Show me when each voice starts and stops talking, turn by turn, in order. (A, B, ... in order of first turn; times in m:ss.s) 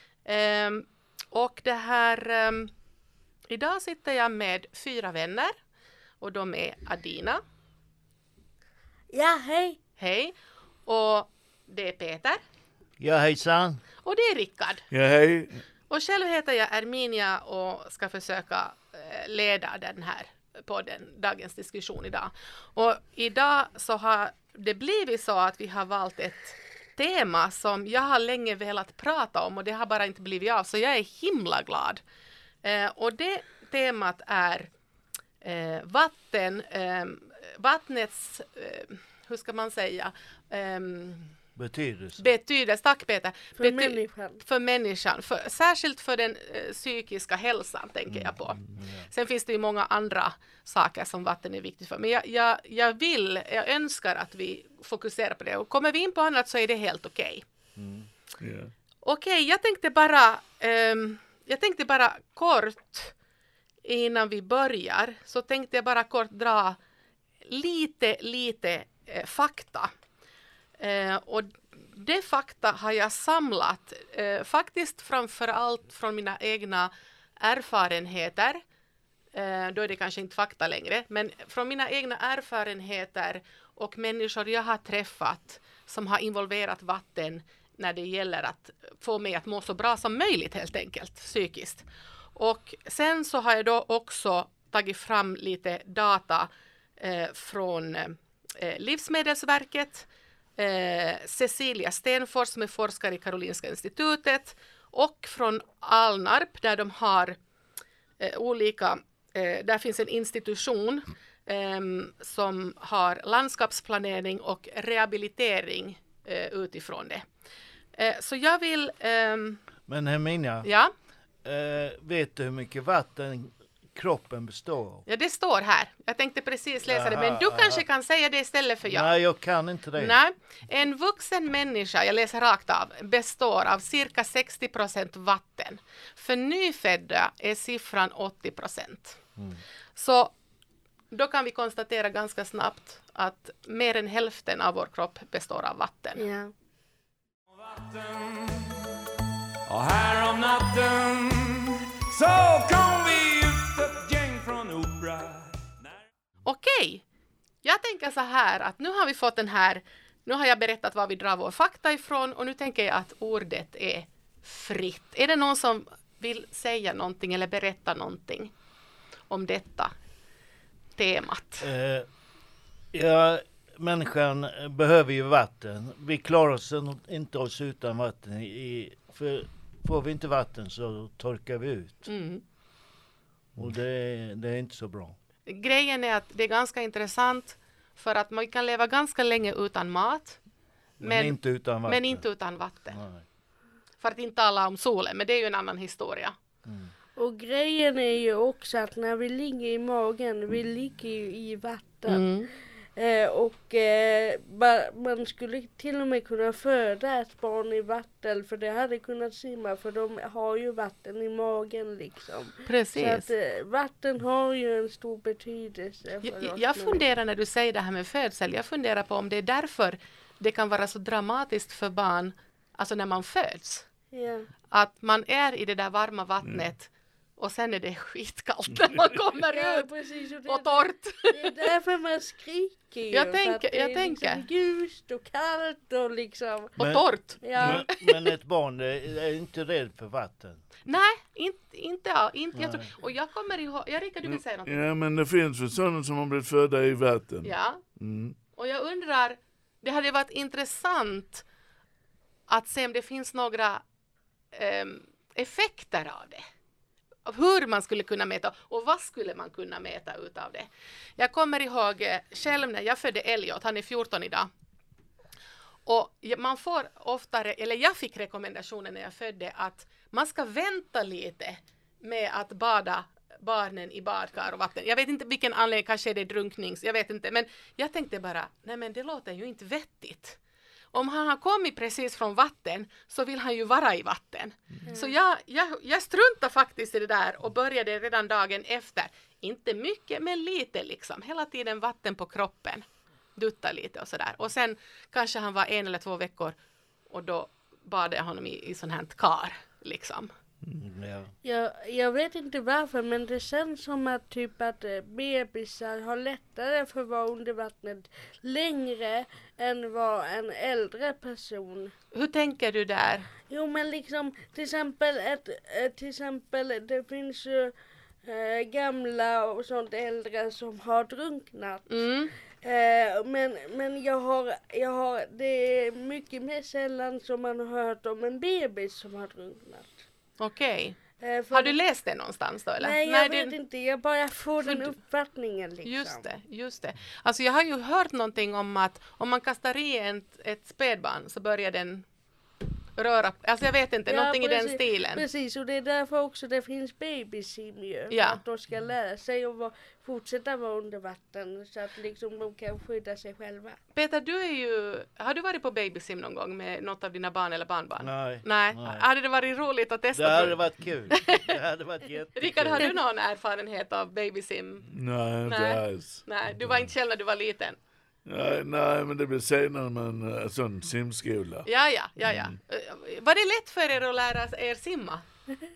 0:00.3-0:02.7 A
0:03.5-0:05.6 A
0:06.2-0:07.4 A
0:09.1-0:09.8 B
0:10.0-0:10.3 A
0:10.9-0:12.4 A
0:13.0-0:13.8 C
0:14.0-0:14.9 A
0:14.9-0:15.6 D
0:15.9-0:32.0 A
0:32.6-0:34.7 A
0:35.4-0:41.3 A
0:41.6-0:42.3 C
0:42.2-0:57.4 A
0:43.6-0:44.4 B
0:48.1-0:49.1 C
0:57.8-0:58.1 C
0:58.4-0:58.7 D
0:59.0-1:03.1 A
1:03.8-1:06.8 A
1:07.5-1:09.9 A
1:10.8-1:18.6 A
1:19.3-1:47.4 A
1:48.2-1:57.2 A
1:58.0-1:59.6 A
1:59.9-2:00.7 C
2:00.6-2:00.9 A
2:01.4-2:05.0 C
2:05.1-2:09.1 A
2:06.9-2:07.8 C
2:08.9-2:10.2 C
2:10.0-2:19.2 A
2:20.0-2:20.3 A
2:21.1-2:26.2 A
2:26.2-2:26.5 B
2:27.6-2:28.8 E
2:29.7-2:35.7 E
2:36.4-2:37.0 A
2:37.6-2:48.5 A
2:49.3-2:49.9 A
2:51.0-2:51.7 A
2:51.6-2:52.1 C
2:52.9-3:02.1 C
3:02.1-3:02.4 A
3:03.6-3:05.2 C
3:05.5-3:10.4 A
3:11.0-3:12.2 C
3:11.0-3:13.0 A
3:12.9-3:13.2 C
3:14.0-3:16.4 A
3:16.6-3:16.9 C
3:17.2-3:22.3 B
3:22.1-3:22.5 A
3:23.0-3:37.0 B
3:32.7-3:33.3 A
3:36.2-3:43.9 A
3:44.1-3:44.5 B
3:44.7-3:49.9 A
3:49.5-3:56.8 B
3:50.5-3:51.7 A
3:53.1-3:54.5 A
3:56.8-3:57.8 A
3:56.8-4:00.6 C
3:57.4-3:57.9 B
4:00.9-4:04.8 A
4:02.6-4:02.9 C
4:04.3-4:08.4 D
4:07.4-4:07.8 A
4:08.6-4:11.5 A
4:12.5-4:13.8 A
4:14.5-4:16.4 A
4:17.3-4:24.5 A
4:25.9-4:40.4 A
4:40.9-4:52.8 A
4:44.9-4:45.1 B
4:53.4-4:56.6 A
4:57.1-5:00.3 A
5:00.8-5:01.3 C
5:01.4-5:11.9 B
5:12.1-5:13.3 A
5:13.5-5:17.7 B
5:18.2-5:21.9 B
5:21.9-5:22.3 A
5:22.6-5:30.0 B
5:30.4-5:31.0 A
5:31.2-5:31.8 B
5:31.5-5:33.6 A
5:32.8-5:36.3 B
5:34.6-5:34.9 A
5:35.8-5:42.1 A
5:43.0-5:45.2 A
5:44.1-5:53.8 B
5:48.1-5:48.4 A
5:54.0-6:01.6 A
5:58.0-5:59.0 C
6:00.2-6:02.9 C
6:02.4-6:04.9 A
6:04.9-6:06.9 D
6:05.4-6:07.8 A
6:08.3-6:11.7 D
6:11.7-6:15.2 A
6:12.2-6:12.6 D